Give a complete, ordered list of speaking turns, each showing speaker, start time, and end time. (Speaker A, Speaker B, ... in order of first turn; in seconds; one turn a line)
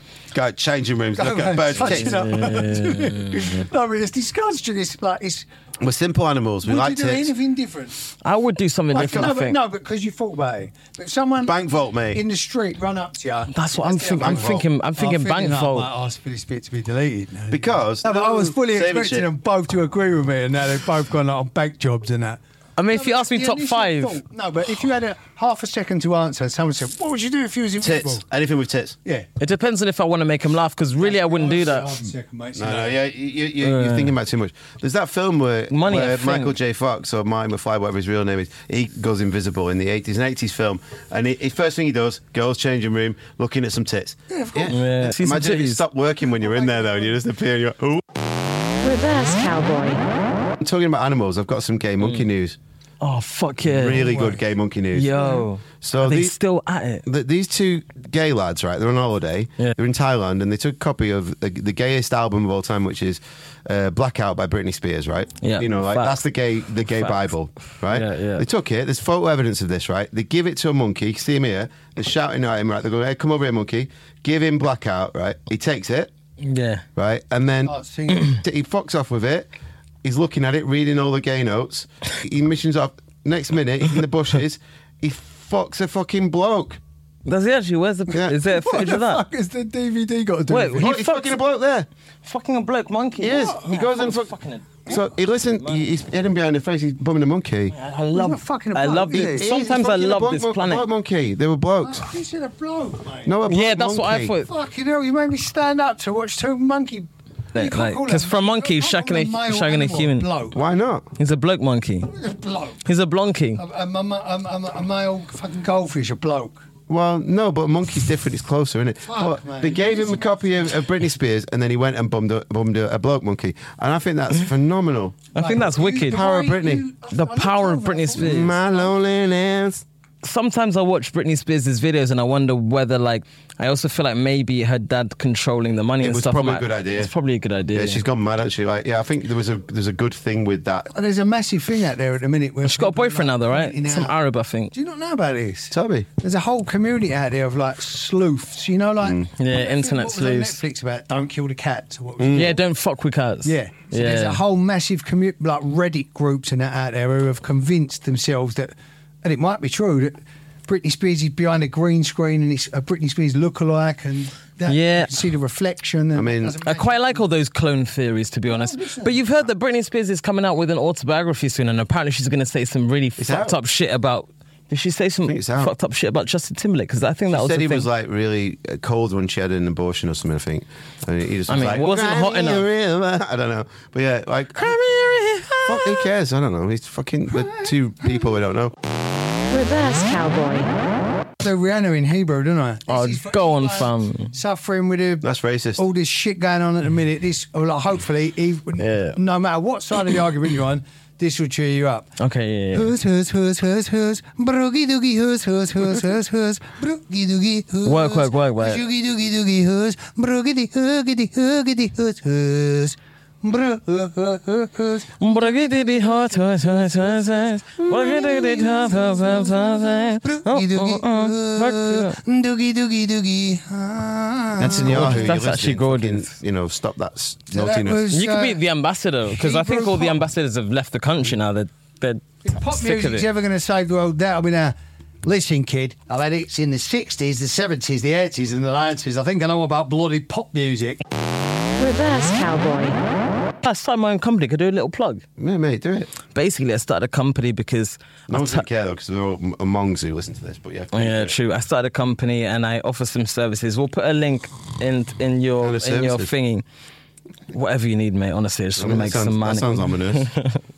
Speaker A: 0.3-2.3
Speaker B: 1.2-5.5
Speaker C: 1.8-3.7
Speaker A: 5.8-7.3
Speaker B: 6.6-8.1
Speaker C: 8.2-9.6
Speaker B: 8.9-28.2
Speaker A: 11.4-12.2
Speaker C: 13.5-15.9
Speaker A: 14.2-14.7
Speaker A: 17.5-19.3
Speaker C: 22.8-24.2
Speaker A: 27.8-29.0
Speaker C: 29.4-31.9
Speaker B: 31.0-33.0
Speaker A: 32.6-48.1
Speaker C: 33.6-34.1
Speaker C: 35.7-36.6
Speaker B: 44.3-44.8
Speaker C: 44.7-45.8
Speaker B: 46.3-47.2
Speaker D: 48.8-50.0
Speaker A: 50.6-52.6
Speaker C: 52.0-52.3
Speaker C: 53.0-54.3
Speaker A: 53.6-56.4
Speaker B: 53.9-54.4
Speaker C: 54.9-57.0
Speaker A: 57.1-76.1
Speaker C: 65.4-66.2
Speaker C: 66.9-67.2
Speaker C: 67.9-68.5
Speaker C: 76.4-76.8
Speaker A: 77.0-79.5
Speaker B: 77.7-78.4
Speaker A: 80.0-86.8
Speaker C: 87.2-89.2
Speaker A: 88.1-88.3
Speaker B: 88.4-90.9
Speaker C: 90.5-91.4
Speaker A: 90.8-91.9
Speaker C: 92.2-94.8
Speaker A: 93.2-94.3
Speaker B: 93.3-93.6
Speaker A: 94.9-97.7
Speaker C: 95.6-95.8
Speaker C: 97.7-100.8
Speaker B: 98.1-99.5
Speaker A: 99.4-102.1
Speaker B: 101.8-103.4
Speaker A: 103.3-104.3
Speaker C: 103.5-104.5
Speaker B: 104.4-110.6
Speaker C: 107.5-110.3
Speaker A: 110.5-111.1
Speaker C: 111.2-112.1
Speaker B: 112.1-112.8
Speaker C: 112.8-113.6
Speaker B: 113.6-116.6
Speaker A: 116.9-125.3
Speaker B: 119.0-120.8
Speaker C: 125.3-126.2
Speaker B: 125.3-128.9
Speaker A: 126.1-126.8
Speaker C: 127.1-128.6
Speaker A: 128.2-129.8
Speaker C: 130.2-138.0
Speaker A: 136.0-137.1
Speaker A: 137.7-140.9
Speaker B: 140.9-144.1
Speaker C: 142.7-144.7
Speaker B: 144.7-152.6
Speaker A: 145.7-146.1
Speaker C: 149.4-150.6
Speaker A: 152.2-152.5
Speaker C: 152.3-154.4
Speaker B: 153.4-167.2
Speaker C: 164.7-165.2
Speaker A: 166.2-166.6
Speaker C: 166.6-177.9
Speaker B: 168.5-169.2
Speaker A: 173.2-173.6
Speaker A: 175.3-175.7
Speaker A: 177.3-184.8
Speaker C: 181.5-182.7
Speaker C: 184.6-186.1
Speaker A: 185.7-188.7
Speaker B: 187.3-188.2
Speaker D: 189.5-190.7
Speaker B: 191.4-202.1
Speaker C: 192.9-194.3
Speaker A: 195.2-195.8
Speaker C: 198.8-199.2
Speaker C: 202.2-202.9
Speaker B: 202.7-215.9
Speaker C: 207.8-208.8
Speaker C: 215.2-222.2
Speaker B: 217.8-225.3
Speaker A: 224.6-228.1
Speaker C: 224.9-226.3
Speaker B: 227.5-228.6
Speaker C: 228.1-233.3
Speaker B: 229.3-230.2
Speaker B: 232.4-241.0
Speaker D: 241.8-243.0
Speaker C: 243.6-245.2
Speaker A: 245.4-246.1
Speaker C: 246.3-248.7
Speaker A: 248.3-251.3
Speaker C: 250.9-256.6
Speaker A: 255.6-256.3
Speaker C: 257.5-260.6
Speaker A: 258.8-260.3